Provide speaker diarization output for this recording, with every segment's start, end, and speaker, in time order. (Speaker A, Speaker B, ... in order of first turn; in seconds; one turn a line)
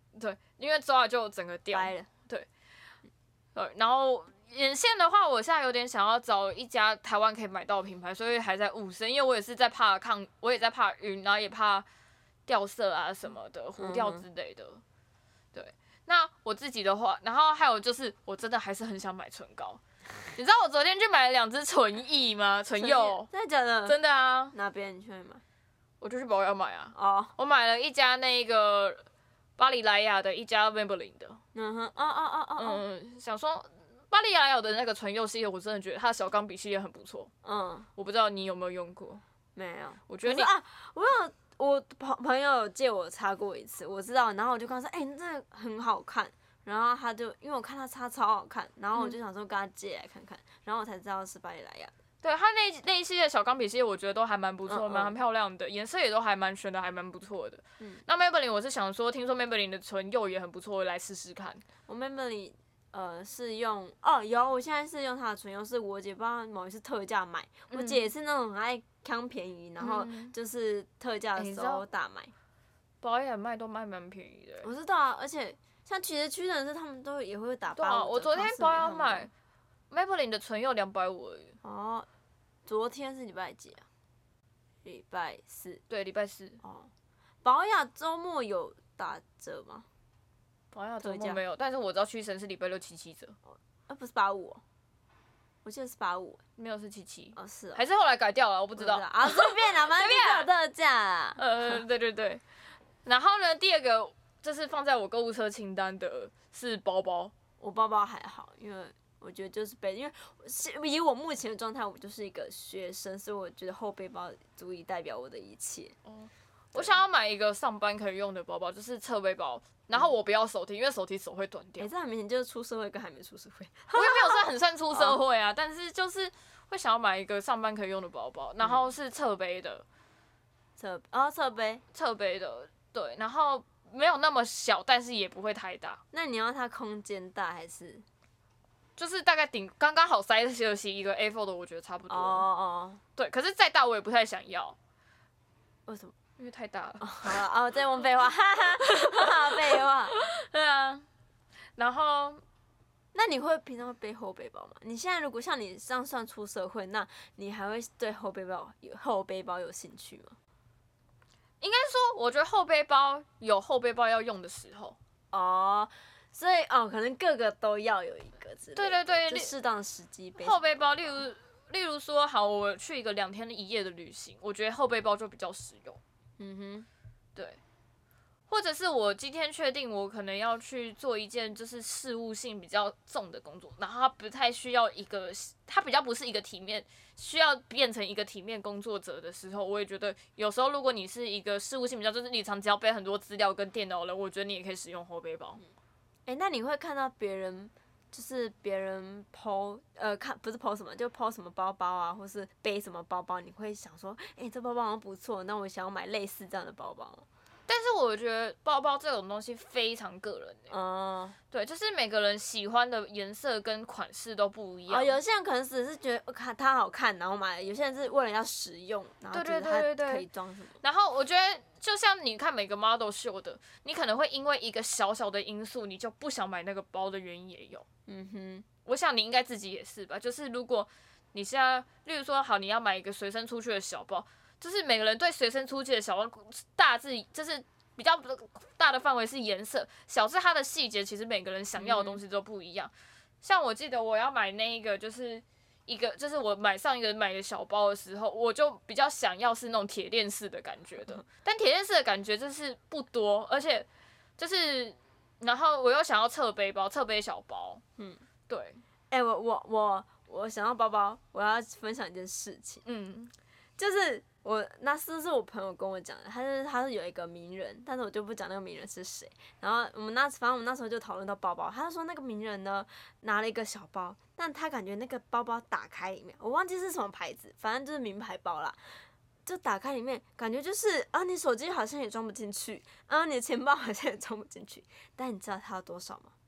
Speaker A: 0.1-2.5
Speaker B: 1.7-2.1
Speaker A: 3.5-11.8
Speaker A: 12.4-14.8
Speaker B: 13.8-14.2
Speaker A: 15.5-19.8
Speaker A: 20.3-23.3
Speaker B: 22.8-24.0
Speaker A: 23.9-24.5
Speaker B: 24.5-25.4
Speaker A: 26.0-29.0
Speaker B: 26.9-27.3
Speaker A: 29.6-31.4
Speaker B: 31.5-32.8
Speaker A: 32.6-37.3
Speaker B: 37.4-37.9
Speaker A: 38.0-39.2
Speaker B: 39.5-51.9
Speaker A: 40.1-40.5
Speaker A: 52.2-61.6
Speaker B: 54.7-55.1
Speaker B: 61.9-72.3
Speaker A: 67.7-68.1
Speaker A: 69.8-70.3
Speaker A: 71.4-71.8
Speaker A: 73.0-74.7
Speaker B: 74.6-79.3
Speaker A: 77.7-79.3
Speaker A: 79.9-81.5
Speaker B: 81.6-82.1
Speaker B: 82.7-83.8
Speaker B: 84.8-85.8
Speaker A: 85.9-86.6
Speaker B: 86.6-86.9
Speaker B: 87.4-89.9
Speaker A: 90.7-93.3
Speaker B: 91.0-91.4
Speaker B: 93.5-94.6
Speaker B: 95.6-96.4
Speaker A: 96.6-100.5
Speaker B: 97.3-97.8
Speaker B: 98.8-101.8
Speaker A: 101.4-102.4
Speaker A: 103.0-107.3
Speaker B: 107.6-116.0
Speaker A: 116.0-121.9
Speaker B: 121.8-125.2
Speaker A: 123.9-129.8
Speaker B: 130.8-131.8
Speaker A: 131.9-136.0
Speaker B: 136.1-138.0
Speaker A: 139.0-142.5
Speaker B: 142.1-143.0
Speaker A: 143.2-144.8
Speaker B: 145.9-146.2
Speaker A: 146.4-147.4
Speaker B: 147.0-150.2
Speaker A: 148.8-151.1
Speaker A: 151.8-152.4
Speaker B: 153.1-160.4
Speaker A: 161.6-165.0
Speaker B: 165.3-171.2
Speaker A: 168.8-169.5
Speaker A: 170.4-176.0
Speaker B: 176.4-176.9
Speaker A: 178.5-195.6
Speaker B: 196.2-207.2
Speaker A: 207.7-210.7
Speaker B: 210.7-211.3
Speaker A: 211.5-215.2
Speaker B: 214.9-220.8
Speaker A: 219.3-220.2
Speaker A: 220.8-227.8
Speaker B: 228.1-228.7
Speaker A: 228.8-253.9
Speaker B: 241.8-242.2
Speaker A: 254.4-257.8
Speaker A: 258.5-258.8
Speaker B: 259.1-262.8
Speaker A: 262.8-263.3
Speaker B: 263.8-278.8
Speaker B: 279.4-286.3